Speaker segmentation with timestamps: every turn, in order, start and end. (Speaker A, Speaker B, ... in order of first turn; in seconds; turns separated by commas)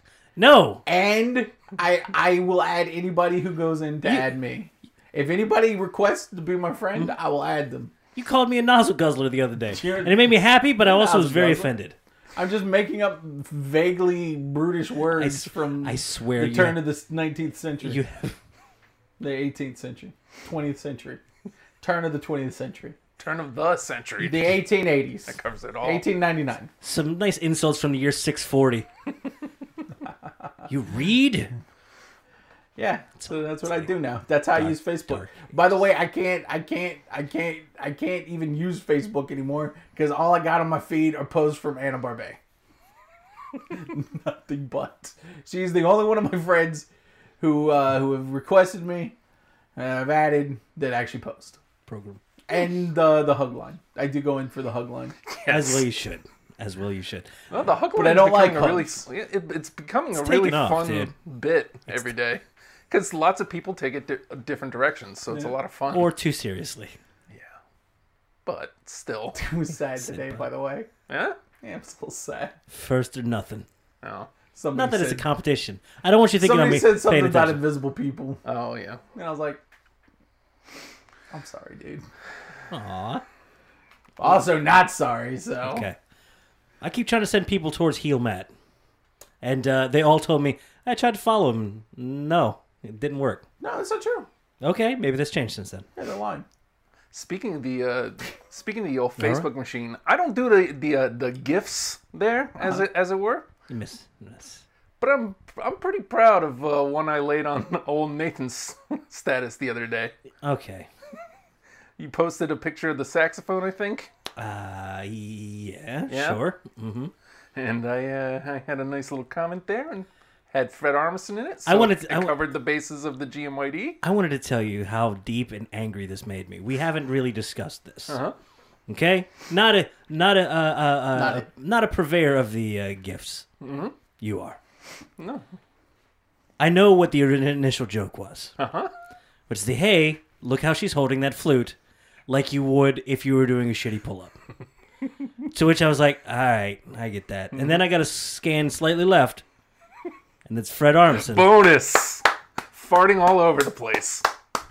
Speaker A: 0.3-0.8, Speaker B: 0.8-7.9, Speaker A: 8.1-11.9, Speaker B: 9.7-11.7, Speaker B: 12.3-18.0, Speaker A: 15.1-16.9, Speaker A: 17.8-18.4, Speaker B: 19.2-21.2, Speaker B: 21.8-22.9, Speaker C: 23.2-24.6, Speaker B: 24.2-26.7, Speaker C: 25.3-26.1, Speaker A: 26.8-28.9, Speaker A: 30.7-31.5, Speaker B: 32.8-42.4, Speaker A: 33.2-33.9, Speaker A: 34.5-35.4, Speaker B: 43.7-46.9, Speaker B: 47.4-49.1, Speaker B: 49.8-51.6, Speaker A: 51.9-52.2, Speaker B: 52.5-55.1, Speaker C: 55.3-55.8, Speaker A: 55.5-57.3, Speaker C: 57.5-66.1, Speaker B: 57.9-59.0, Speaker A: 60.1-61.1, Speaker B: 65.3-65.5, Speaker A: 65.9-67.0, Speaker C: 68.5-69.4, Speaker B: 69.3-70.9, Speaker A: 70.0-70.4, Speaker C: 71.1-71.4, Speaker B: 71.6-72.5, Speaker A: 72.7-73.7, Speaker C: 74.0-74.3, Speaker B: 74.5-75.2, Speaker A: 74.7-77.7, Speaker B: 76.4-78.4, Speaker C: 78.4-79.0, Speaker B: 79.1-79.6, Speaker B: 81.3-82.0, Speaker A: 82.7-83.2, Speaker B: 84.2-85.9, Speaker A: 85.6-86.0, Speaker A: 86.8-88.5, Speaker A: 89.4-93.4, Speaker B: 93.6-94.3, Speaker A: 94.6-95.8, Speaker B: 96.0-96.5, Speaker C: 97.1-103.5, Speaker A: 99.2-99.5, Speaker A: 103.7-104.6, Speaker C: 105.0-110.1, Speaker A: 110.4-110.9, Speaker C: 112.0-114.1, Speaker A: 114.3-117.1, Speaker C: 116.1-116.5, Speaker C: 117.5-124.0, Speaker A: 121.7-122.4, Speaker A: 124.0-128.2, Speaker C: 128.1-128.3, Speaker A: 128.9-133.5, Speaker B: 131.1-131.4, Speaker C: 133.6-133.9, Speaker A: 134.2-134.6, Speaker C: 135.2-135.4, Speaker A: 136.6-138.5, Speaker C: 138.6-138.9, Speaker A: 139.5-141.8, Speaker A: 142.3-144.4, Speaker A: 145.5-149.4, Speaker C: 147.5-147.8, Speaker A: 150.4-151.6, Speaker C: 151.1-154.2